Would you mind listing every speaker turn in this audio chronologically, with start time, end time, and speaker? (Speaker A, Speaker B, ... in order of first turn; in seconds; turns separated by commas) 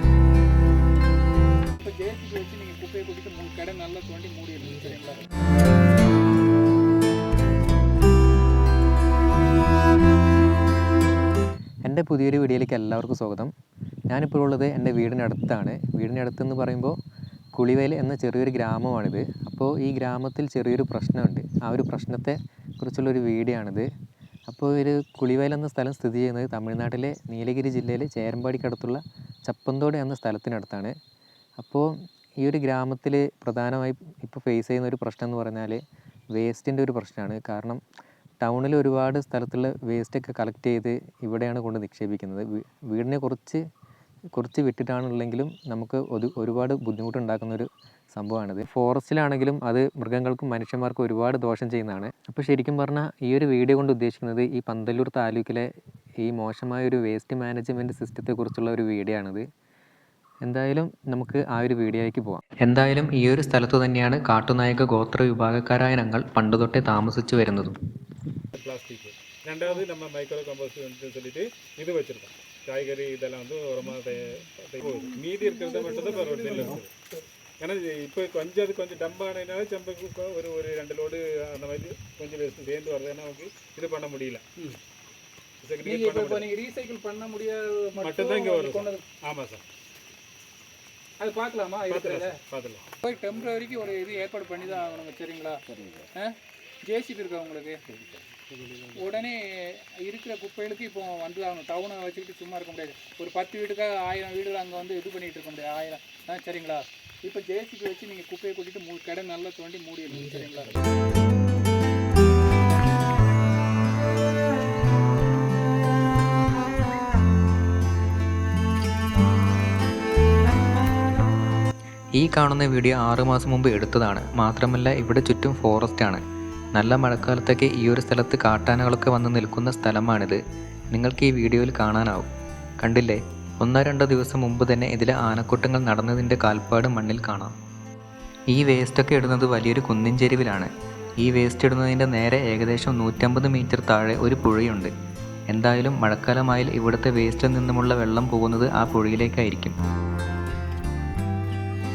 Speaker A: 1.8-5.3, Speaker B: 11.8-13.5, Speaker B: 14.1-17.0, Speaker B: 17.6-23.9, Speaker B: 24.5-30.9, Speaker B: 31.6-35.8, Speaker B: 36.4-37.8, Speaker B: 38.4-43.6, Speaker B: 44.4-59.5, Speaker B: 60.5-67.8, Speaker C: 68.5-76.9, Speaker A: 74.8-76.8, Speaker C: 77.6-84.5, Speaker C: 85.6-86.5, Speaker A: 85.8-89.0, Speaker C: 88.0-89.6, Speaker A: 91.2-92.4, Speaker C: 91.9-92.9, Speaker A: 93.0-98.0, Speaker A: 98.9-110.8, Speaker B: 122.2-126.2, Speaker B: 126.8-130.4, Speaker B: 130.9-137.6, Speaker B: 138.5-144.9, Speaker B: 145.5-149.8